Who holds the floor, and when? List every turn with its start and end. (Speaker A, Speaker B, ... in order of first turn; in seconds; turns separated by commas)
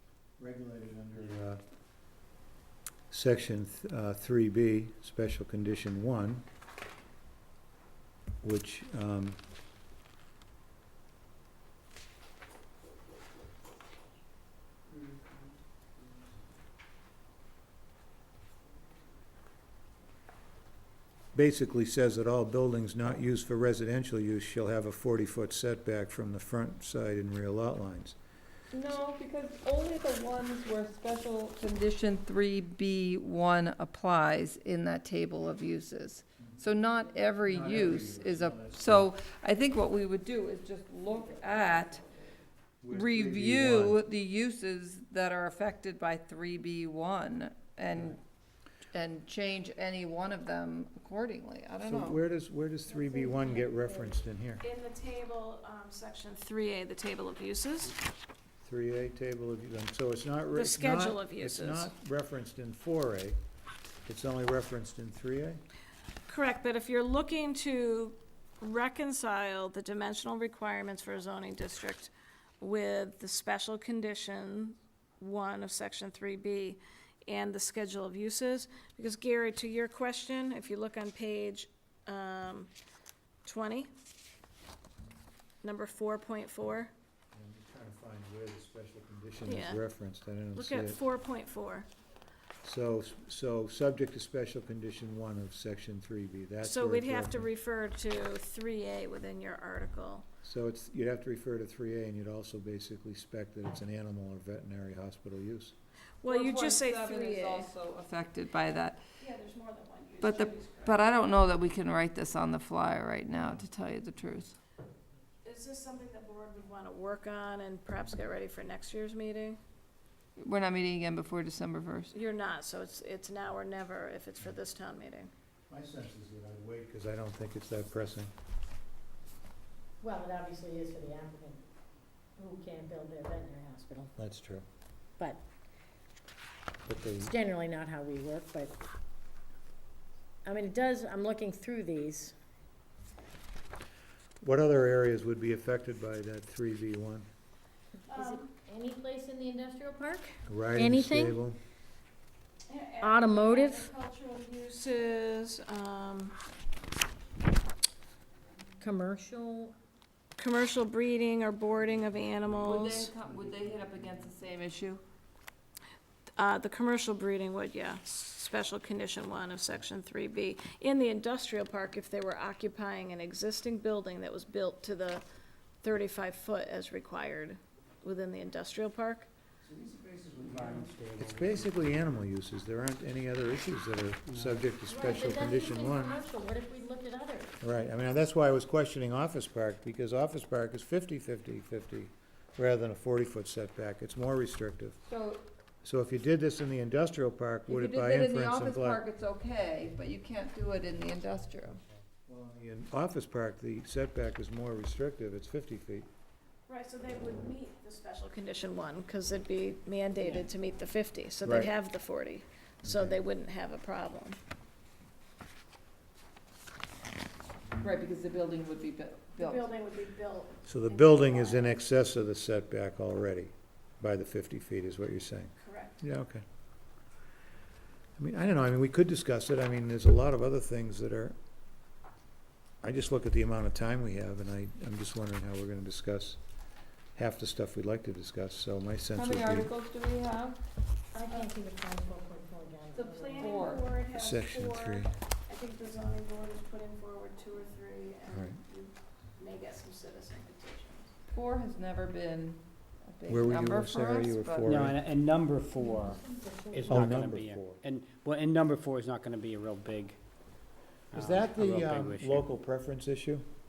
Speaker A: 0.4-1.6, Speaker A: 3.1-6.4, Speaker A: 8.4-9.4, Speaker A: 21.3-28.2, Speaker B: 28.7-42.0, Speaker A: 37.4-39.1, Speaker A: 42.8-44.0, Speaker B: 42.9-48.2, Speaker B: 48.9-52.2, Speaker A: 51.8-54.6, Speaker C: 52.9-54.2, Speaker D: 54.6-58.0, Speaker A: 58.6-63.4, Speaker D: 60.5-61.9, Speaker A: 64.0-65.6, Speaker D: 66.3-82.7, Speaker D: 83.4-83.9, Speaker D: 85.6-86.9, Speaker A: 87.3-91.0, Speaker D: 89.4-89.8, Speaker D: 90.5-91.9, Speaker A: 92.6-97.5, Speaker D: 96.6-100.2, Speaker A: 100.4-105.7, Speaker D: 106.2-107.7, Speaker B: 106.2-109.0, Speaker D: 109.2-111.0, Speaker B: 110.2-114.5, Speaker D: 115.4-119.6, Speaker B: 120.4-122.1, Speaker D: 122.1-125.3, Speaker A: 125.7-128.3, Speaker C: 130.0-131.7, Speaker C: 132.4-134.1, Speaker A: 134.2-134.6, Speaker C: 135.2-135.4, Speaker A: 136.8-137.3, Speaker C: 137.2-138.8, Speaker C: 140.4-142.3, Speaker A: 144.4-147.3, Speaker C: 148.1-151.4, Speaker D: 148.1-148.5, Speaker A: 150.5-151.6, Speaker D: 152.7-156.3, Speaker C: 153.0-153.9, Speaker C: 158.8-159.7, Speaker D: 160.4-163.1, Speaker B: 162.6-165.0, Speaker D: 166.3-175.2, Speaker D: 175.8-179.3, Speaker A: 179.6-186.2, Speaker E: 180.4-181.7, Speaker E: 184.3-184.7, Speaker C: 184.9-187.5, Speaker D: 185.6-185.9, Speaker A: 187.6-195.0, Speaker B: 195.1-195.4, Speaker A: 195.8-199.0, Speaker B: 197.7-201.8, Speaker A: 202.3-206.1, Speaker D: 206.7-214.4, Speaker A: 211.4-211.7, Speaker A: 212.8-213.2, Speaker B: 217.8-219.7, Speaker D: 219.4-221.8, Speaker A: 220.7-226.4, Speaker D: 225.6-225.9, Speaker A: 228.2-231.3, Speaker A: 232.8-236.4, Speaker A: 237.2-239.7, Speaker B: 239.1-240.6, Speaker C: 241.1-243.8, Speaker D: 241.2-241.5, Speaker D: 242.9-251.1, Speaker B: 243.4-243.8, Speaker A: 244.1-245.1, Speaker A: 248.3-248.6, Speaker B: 251.3-254.8, Speaker A: 253.3-255.0, Speaker E: 254.7-256.2, Speaker C: 255.8-257.0, Speaker E: 256.7-260.2, Speaker A: 256.9-257.7, Speaker E: 261.1-262.4, Speaker A: 261.1-263.4